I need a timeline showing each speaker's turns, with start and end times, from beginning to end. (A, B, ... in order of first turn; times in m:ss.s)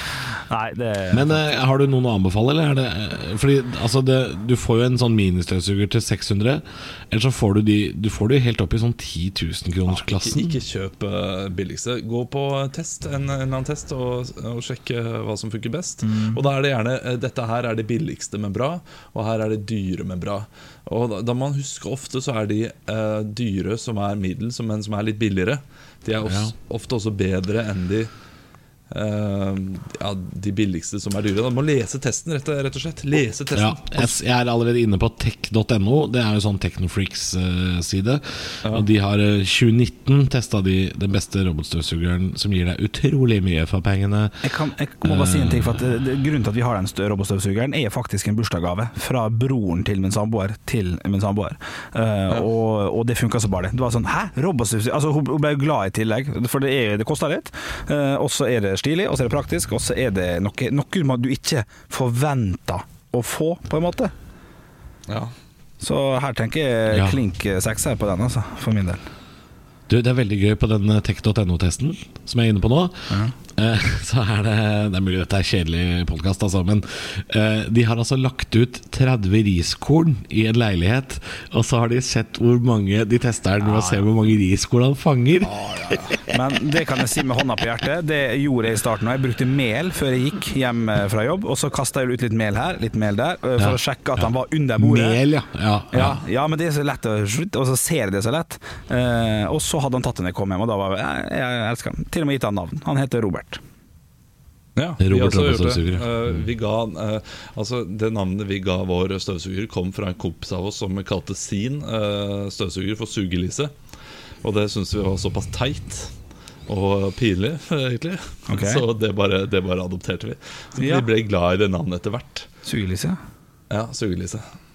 0:00.5-0:01.4 A
0:01.1-0:10.5 B
0:09.9-0:28.1 C
0:16.0-0:16.4 A
0:26.2-0:26.5 B
0:28.9-0:34.1 C
0:33.5-0:44.4 B
0:44.4-1:04.1 A
0:45.0-0:45.8 B
1:05.1-1:05.3 C
1:05.8-1:09.0 A
1:06.9-1:07.2 B
1:09.9-1:26.4 B
1:13.1-1:13.3 A
1:23.6-1:24.0 A
1:25.8-1:35.2 A
1:33.6-1:36.2 B
1:35.9-1:43.6 A
1:44.8-1:53.7 C
1:45.0-1:46.1 B
1:54.4-1:56.1 C
1:56.7-2:02.5 C
1:58.5-1:58.8 A
2:00.8-2:01.0 A
2:02.6-2:03.2 A
2:03.7-2:04.4 C